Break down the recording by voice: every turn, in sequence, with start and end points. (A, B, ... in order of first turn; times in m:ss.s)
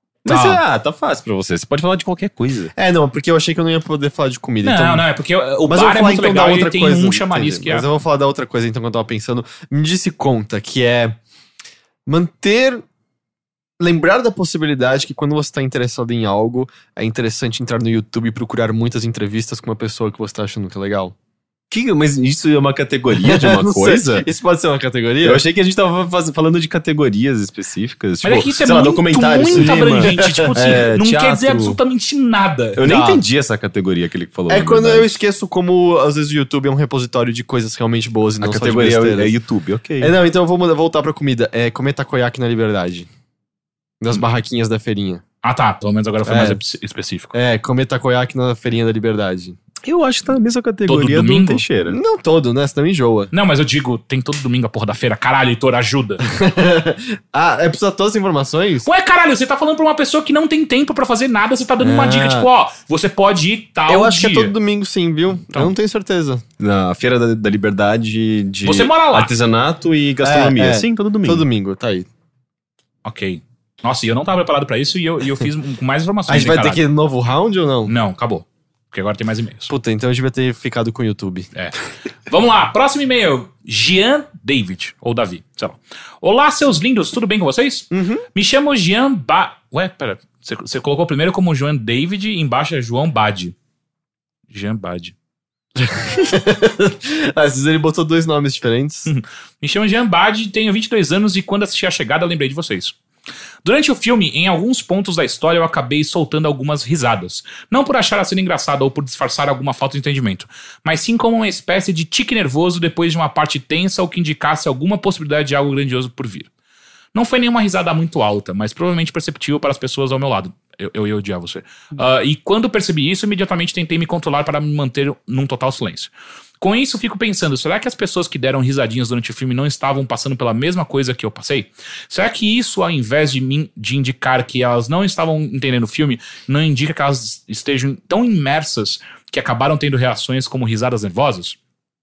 0:00.2-0:02.7 A
0:02.8-0:05.0 B
0:04.6-0:07.9 C
0:05.7-0:11.2 B
0:12.1-0:12.8 B
0:13.8-0:21.2 B
0:21.7-0:24.3 A
0:23.2-0:25.4 B
0:25.2-0:31.8 A
0:28.2-0:32.8 C
0:29.5-0:30.5 B
0:32.8-0:35.2 A
0:32.8-0:33.2 B
0:34.5-0:39.3 B
0:38.4-0:40.2 A
0:40.0-0:43.1 B
0:44.0-0:45.2 B
0:45.4-0:47.3 C
0:46.2-0:46.6 B
0:47.3-0:49.6 B
0:49.8-0:52.0 A
0:50.9-0:51.6 C
0:51.9-0:53.3 B
0:53.3-0:56.2 C
0:56.3-0:58.9 B
0:58.9-1:04.5 C
1:01.8-1:02.5 B
1:03.9-1:06.4 B
1:06.6-1:11.4 A
1:08.6-1:09.3 C
1:10.2-1:12.1 B
1:13.0-1:16.8 C
1:16.3-1:17.9 B
1:17.9-1:19.7 C
1:19.7-1:21.5 B
1:22.3-1:33.5 C
1:27.9-1:28.2 B
1:34.5-1:35.2 C
1:35.8-1:39.1 B
1:39.1-1:43.0 C
1:43.6-1:56.5 C
1:57.1-2:21.6 C